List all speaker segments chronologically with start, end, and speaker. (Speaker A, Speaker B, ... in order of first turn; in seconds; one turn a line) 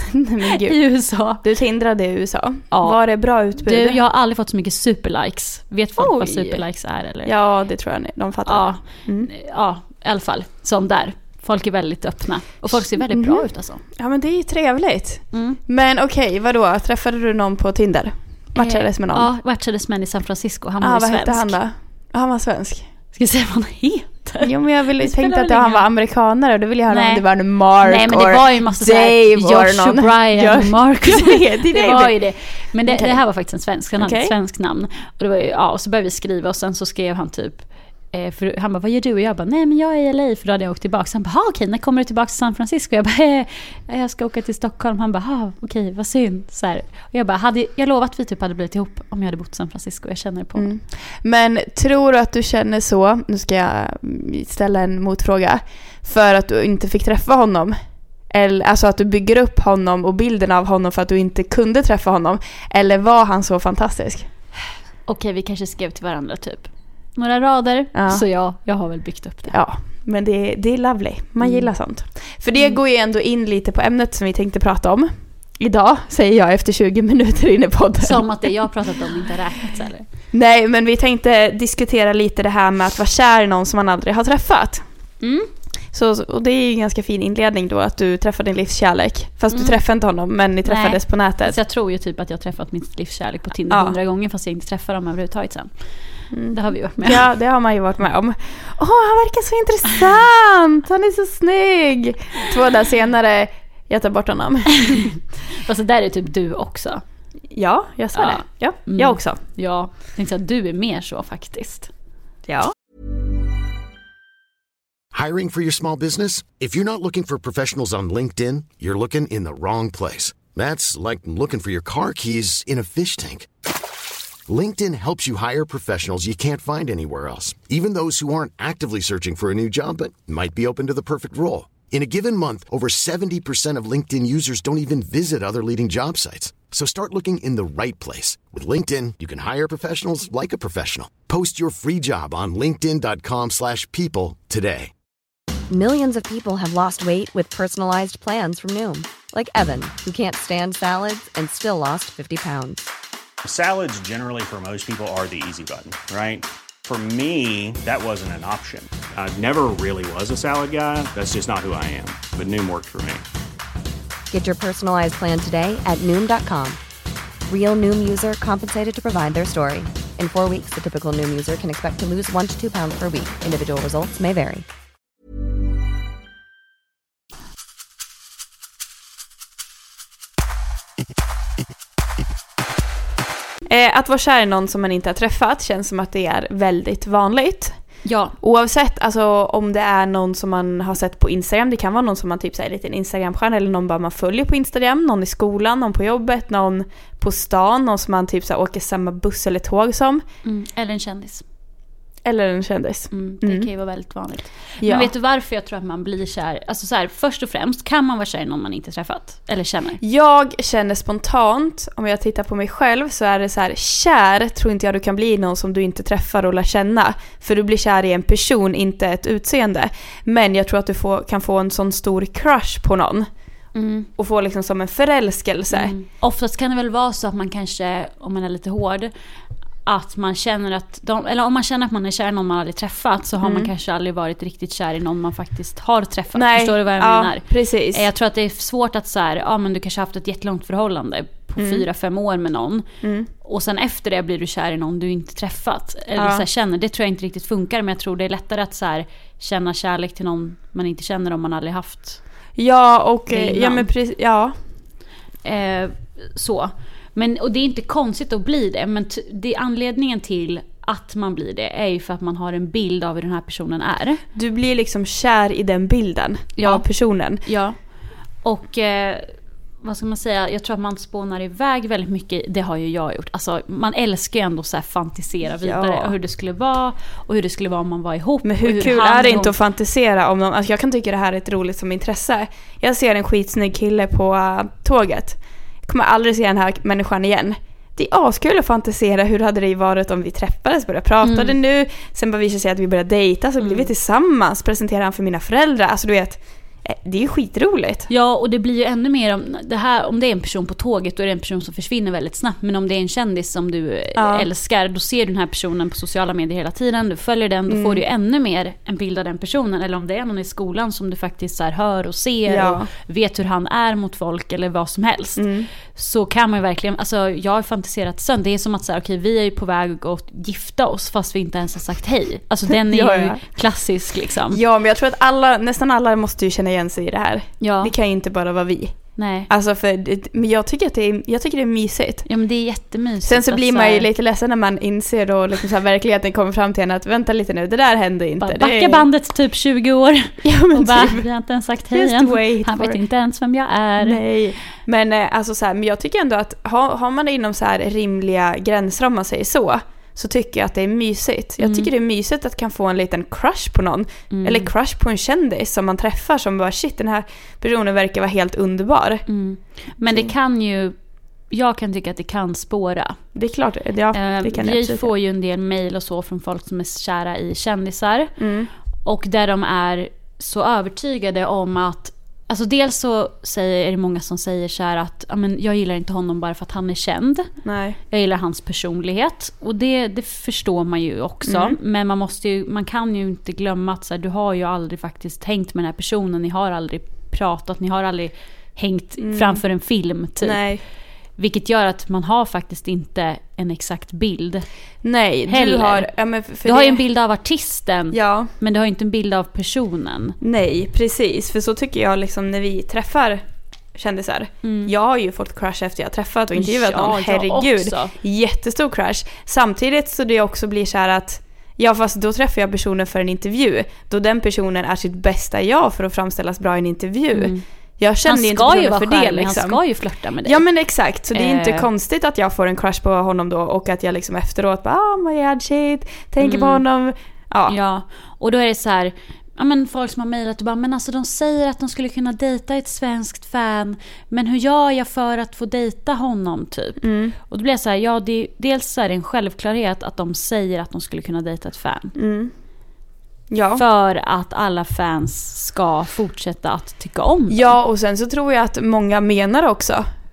Speaker A: 0.1-0.8
Speaker B: 0.5-1.4
Speaker A: 1.4-4.0
Speaker B: 2.7-3.0
Speaker B: 3.6-7.3
Speaker A: 6.0-6.6
Speaker A: 7.2-9.3
Speaker B: 8.5-13.8
Speaker A: 13.1-19.3
Speaker B: 15.3-15.6
Speaker B: 18.6-21.6
Speaker A: 20.8-22.9
Speaker B: 23.1-25.9
Speaker A: 24.4-32.1
Speaker B: 26.9-27.2
Speaker B: 27.8-50.7
Speaker A: 32.9-33.2
Speaker A: 34.0-34.3
Speaker A: 50.6-57.8
Speaker A: 58.3-64.3
Speaker B: 65.1-69.6
Speaker A: 68.0-68.2
Speaker A: 69.5-78.2
Speaker B: 71.4-71.7
Speaker B: 72.5-72.8
Speaker B: 78.0-80.0
Speaker A: 80.3-84.8
Speaker B: 85.2-85.5
Speaker A: 85.9-91.6
Speaker B: 89.5-89.8
Speaker B: 90.6-95.7
Speaker A: 93.7-94.0
Speaker A: 96.3-105.1
Speaker B: 96.5-97.3
Speaker B: 105.6-107.0
Speaker A: 107.5-109.4
Speaker B: 108.1-111.9
Speaker A: 112.5-112.7
Speaker C: 115.1-123.5
Speaker C: 124.5-144.9
Speaker D: 145.7-152.9
Speaker E: 153.4-163.2
Speaker D: 164.3-166.8
Speaker D: 167.5-174.7
Speaker A: 183.7-187.8
Speaker B: 188.1-188.4
Speaker A: 188.4-200.2
Speaker B: 200.4-201.4
Speaker A: 202.2-203.7
Speaker B: 203.1-210.0
Speaker A: 204.8-205.1
Speaker A: 210.0-223.3
Speaker B: 223.8-224.1
Speaker A: 224.2-225.9
Speaker B: 225.7-229.1
Speaker B: 229.9-242.8
Speaker A: 233.4-233.7
Speaker A: 236.3-238.0
Speaker A: 241.6-241.8
Speaker A: 243.0-243.3
Speaker B: 243.4-252.2
Speaker A: 246.2-246.4
Speaker A: 252.6-254.5
Speaker B: 253.3-253.9
Speaker B: 255.4-264.2
Speaker A: 264.4-267.4
Speaker B: 266.6-266.9
Speaker B: 267.4-267.8
Speaker B: 268.4-269.3
Speaker B: 269.8-279.6
Speaker A: 275.6-276.1
Speaker A: 278.4-298.1
Speaker B: 291.2-291.6
Speaker B: 293.6-293.9
Speaker B: 298.1-324.6
Speaker A: 304.2-304.5
Speaker A: 307.7-308.0
Speaker A: 312.5-312.9
Speaker A: 315.4-315.7
Speaker A: 322.8-323.4
Speaker A: 324.5-329.0
Speaker B: 327.6-327.9
Speaker B: 329.2-329.5
Speaker A: 329.5-332.3
Speaker B: 332.3-334.1
Speaker A: 333.2-339.1
Speaker B: 338.4-344.2
Speaker A: 340.4-341.2
Speaker A: 341.9-343.0
Speaker A: 344.0-359.2
Speaker B: 351.6-351.9
Speaker B: 354.3-354.7
Speaker B: 359.3-360.9
Speaker B: 361.5-363.2
Speaker A: 363.4-365.1
Speaker B: 364.1-368.3
Speaker A: 368.4-368.7
Speaker B: 369.1-377.5
Speaker A: 377.6-378.0
Speaker B: 378.1-390.6
Speaker A: 381.5-381.8
Speaker A: 389.2-389.6
Speaker A: 390.4-390.8
Speaker B: 391.4-394.6
Speaker A: 395.0-397.0
Speaker B: 395.5-396.1
Speaker B: 396.6-400.4
Speaker A: 398.1-398.5
Speaker A: 400.4-403.4
Speaker A: 403.9-419.8
Speaker B: 404.6-404.9
Speaker B: 406.6-408.1
Speaker B: 417.3-417.6
Speaker B: 418.2-420.6
Speaker A: 420.4-427.8
Speaker B: 421.3-421.9
Speaker B: 426.4-426.8
Speaker B: 427.7-442.1
Speaker A: 437.0-437.4
Speaker A: 442.2-442.5
Speaker A: 443.5-443.8
Speaker B: 443.8-447.8
Speaker A: 447.5-450.1